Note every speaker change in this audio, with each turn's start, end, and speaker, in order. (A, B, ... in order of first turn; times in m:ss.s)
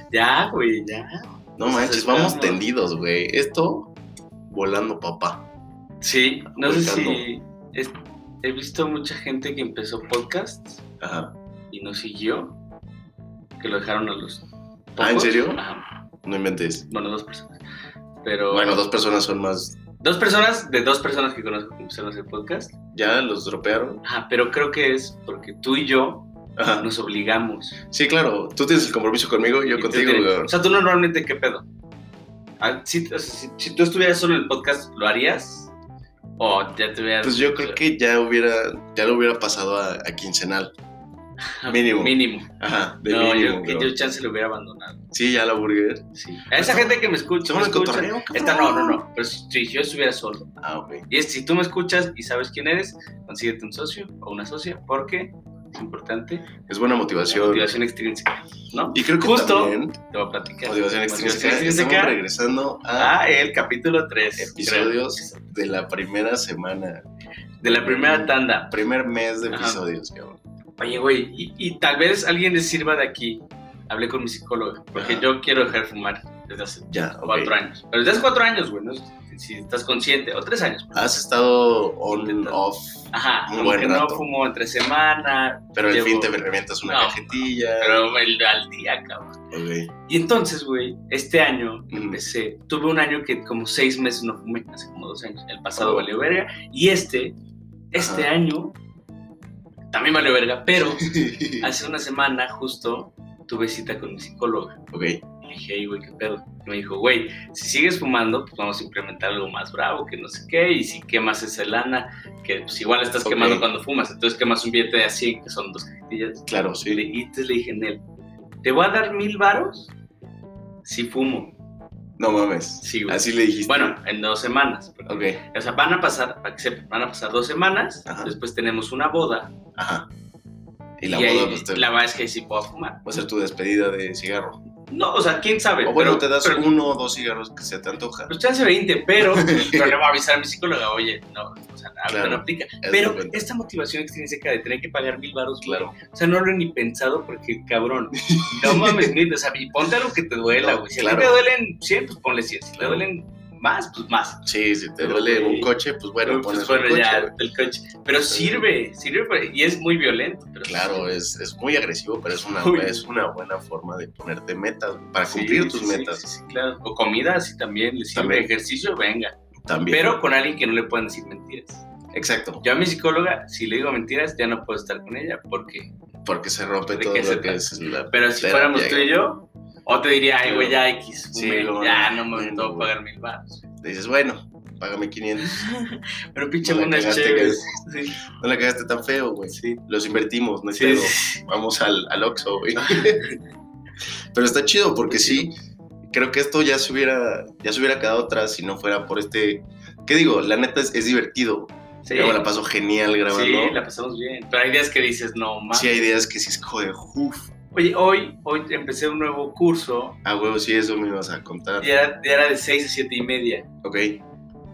0:00.1-0:02.6 A
0:01.6-0:03.9 B
0:04.5-0:05.4 B
0:06.0-0:10.8 A
0:06.5-0:07.2 B
0:11.0-0:11.3 B
0:11.7-0:12.6 A
0:13.6-0:14.4 A
0:14.9-0:15.8 A
0:15.0-0:15.6 B
0:16.2-0:16.9 B
0:16.9-0:17.6 A
0:18.2-0:18.8 A
0:18.5-0:19.8 B
0:20.0-0:22.7 A
0:22.9-0:24.0 B
0:24.0-0:26.3 A
0:26.6-0:26.9 B
0:26.8-0:27.8 A
0:27.9-0:30.5 B
0:29.7-0:31.6 A
0:32.6-0:35.7 A
0:36.4-0:37.8 A
0:37.2-0:40.7 B
0:41.6-0:42.5 A
0:41.7-0:43.9 B
0:43.0-0:45.0 A
0:45.1-0:49.0 B
0:46.2-0:50.5 A
0:50.6-0:51.0 B
0:51.1-0:56.5 A
0:56.6-0:57.7 B
0:57.3-1:02.2 A
0:58.9-1:00.0 B
1:00.6-1:03.1 B
1:03.0-1:05.5 A
1:04.4-1:07.0 B
1:07.6-1:08.8 A
1:07.6-1:10.4 B
1:09.5-1:09.8 A
1:10.8-1:20.9 A
1:15.0-1:15.3 B
1:16.9-1:17.5 B
1:20.9-1:24.2 B
1:22.1-1:29.4 A
1:25.7-1:28.1 B
1:29.5-1:29.9 B
1:30.1-1:37.4 A
1:31.9-1:32.2 B
1:35.8-1:36.0 B
1:37.9-1:38.8 A
1:37.9-1:38.3 B
1:39.9-1:44.8 A
1:41.0-1:41.7 B
1:44.9-1:45.2 B
1:45.4-1:58.0 A
1:53.2-1:53.6 B
1:56.5-1:57.1 B
1:58.6-1:59.9 A
2:00.8-2:01.5 A
2:02.2-2:04.0 B
2:02.8-2:09.5 A
2:05.1-2:05.4 B
2:08.0-2:08.4 B
2:09.8-2:10.1 B
2:11.0-2:11.9 B
2:11.1-2:13.0 A
2:13.0-2:14.6 B
2:14.9-2:16.6 A
2:15.8-2:18.3 B
2:18.3-2:34.4 A
2:19.2-2:20.0 B
2:22.1-2:23.4 B
2:25.6-2:25.9 B
2:28.3-2:29.1 B
2:30.6-2:31.4 B
2:32.8-2:33.0 B
2:34.4-2:37.3 B
2:35.0-2:35.7 A
2:36.2-2:41.2 A
2:38.3-2:38.7 B
2:40.6-2:46.2 B
2:42.4-2:43.0 A
2:45.2-2:49.3 A
2:48.1-2:48.5 B
2:49.6-2:50.2 B
2:49.9-2:51.8 A
2:52.1-2:52.6 B
2:52.6-2:55.9 A
2:56.2-2:59.1 B
2:56.9-3:03.6 A
3:00.4-3:00.8 B
3:01.3-3:02.9 B
3:03.8-3:05.6 B
3:05.4-3:08.2 A
3:06.6-3:07.7 B
3:08.4-3:13.3 B
3:09.5-3:09.8 A
3:10.7-3:11.4 A
3:12.8-3:13.4 A
3:14.3-3:15.5 B
3:15.1-3:15.4 A
3:16.1-3:23.8 B
3:22.0-3:22.4 A
3:23.3-3:26.0 A
3:25.7-3:27.5 B
3:27.7-3:30.2 A
3:30.2-3:31.9 B
3:31.8-3:33.6 A
3:33.8-3:34.2 B